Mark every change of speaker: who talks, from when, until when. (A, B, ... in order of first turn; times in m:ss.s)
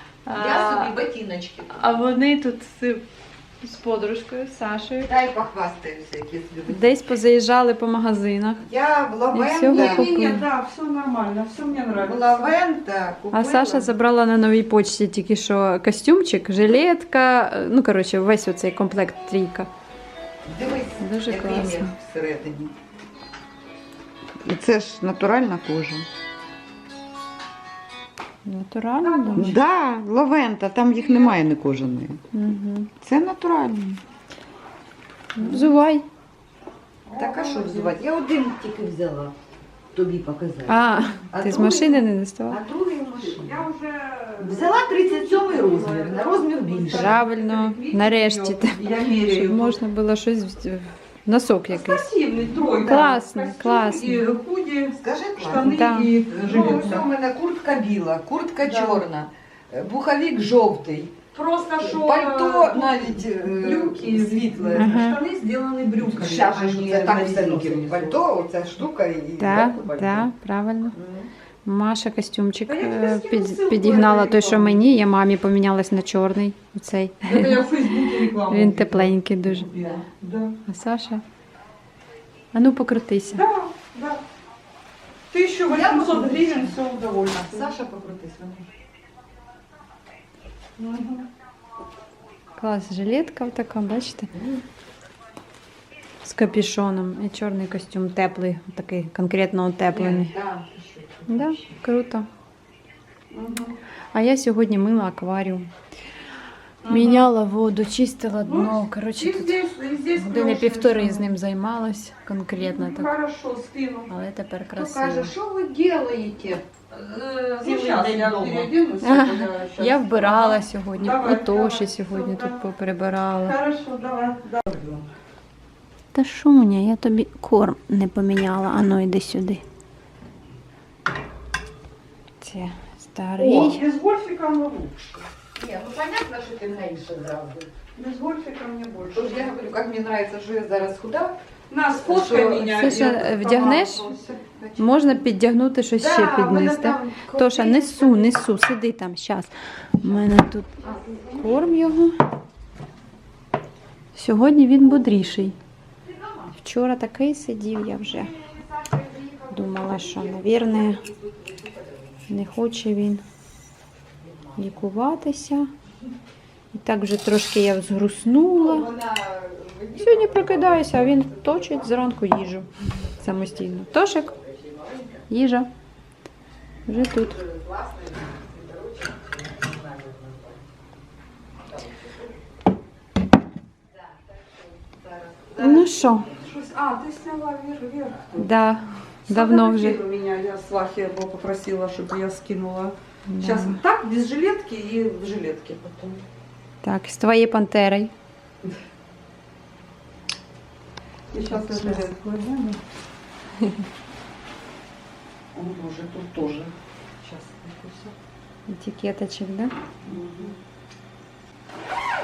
0:00.3-0:01.0 A
0:00.4-0:01.9 B
0:01.7-0:03.0 A
0:03.6-0:05.1 A
0:05.0-0:06.9 B
0:06.7-0:08.6 A
0:08.6-0:10.1 B
0:09.3-0:10.5 A
0:09.6-0:12.5 C
0:12.0-0:13.9 B
0:13.3-0:19.7 A
0:20.5-0:22.7 B
0:21.0-0:22.0 A
0:24.4-0:26.0 B
0:28.4-0:29.6 A
0:29.0-0:29.6 C
0:29.4-0:32.2 B
0:30.9-0:31.4 C
0:32.3-0:32.9 A
0:33.0-0:34.0 B
0:35.4-0:36.1 A
0:37.1-0:38.0 C
0:37.1-0:39.3 B
0:39.9-0:43.6 B
0:40.7-0:42.6 A
0:43.2-0:49.8 C
0:44.4-0:47.2 B
0:46.9-0:52.1 A
0:48.8-0:49.5 B
0:51.7-0:57.1 C
0:52.6-0:53.2 B
0:52.8-0:54.2 A
0:54.9-0:55.7 B
0:55.6-0:57.0 A
0:56.3-1:01.2 B
0:58.6-0:59.1 C
1:01.3-1:08.2 C
1:01.8-1:05.0 B
1:04.8-1:05.2 A
1:06.0-1:10.3 B
1:09.4-1:11.0 A
1:10.9-1:11.3 B
1:11.6-1:19.8 A
1:12.7-1:14.8 C
1:17.3-1:20.5 C
1:20.7-1:21.2 A
1:22.5-1:23.4 A
1:23.3-1:24.2 C
1:25.3-1:27.8 C
1:25.7-1:28.7 B
1:30.8-1:31.2 C
1:32.6-1:34.3 A
1:34.4-1:34.6 B
1:36.2-1:40.4 A
1:39.9-1:41.6 B
1:41.3-1:42.3 A
1:43.3-1:43.8 C
1:44.1-1:45.7 A
1:46.8-1:47.3 C
1:46.9-1:49.6 A
1:48.4-1:51.3 C
1:50.1-1:53.1 A
1:52.6-1:54.1 C
1:54.1-1:55.3 A
1:54.8-1:56.6 B
1:56.9-2:02.6 C
1:57.6-1:58.8 B
1:59.0-2:03.6 A
2:03.4-2:05.0 C
2:06.1-2:09.6 A
2:12.4-2:13.9 A
2:13.4-2:15.2 C
2:15.6-2:17.7 B
2:18.0-2:19.4 C
2:19.1-2:21.4 B
2:21.7-2:24.8 C
2:22.0-2:22.8 B
2:22.5-2:24.1 A
2:24.8-2:32.2 A
2:26.0-2:27.7 B
2:26.4-2:28.3 C
2:34.1-2:35.6 A
2:36.6-2:38.4 A
2:38.8-2:42.1 B
2:39.5-2:41.1 A
2:42.3-2:43.2 A
2:44.6-2:45.7 A
2:46.7-2:48.9 A
2:48.5-2:52.0 B
2:50.0-2:54.4 A
2:53.2-2:55.2 B
2:55.3-2:55.7 A
2:56.9-2:57.4 A
2:56.9-3:00.6 B
3:01.8-3:02.1 B
3:04.4-3:06.4 B
3:05.6-3:06.3 A
3:06.4-3:08.5 C
3:08.4-3:10.0 A
3:09.3-3:16.2 C
3:13.3-3:13.8 A
3:16.8-3:18.1 A
3:21.3-3:22.8 C
3:21.4-3:22.4 A
3:25.5-3:28.1 C
3:28.7-3:29.7 A
3:30.0-3:30.5 C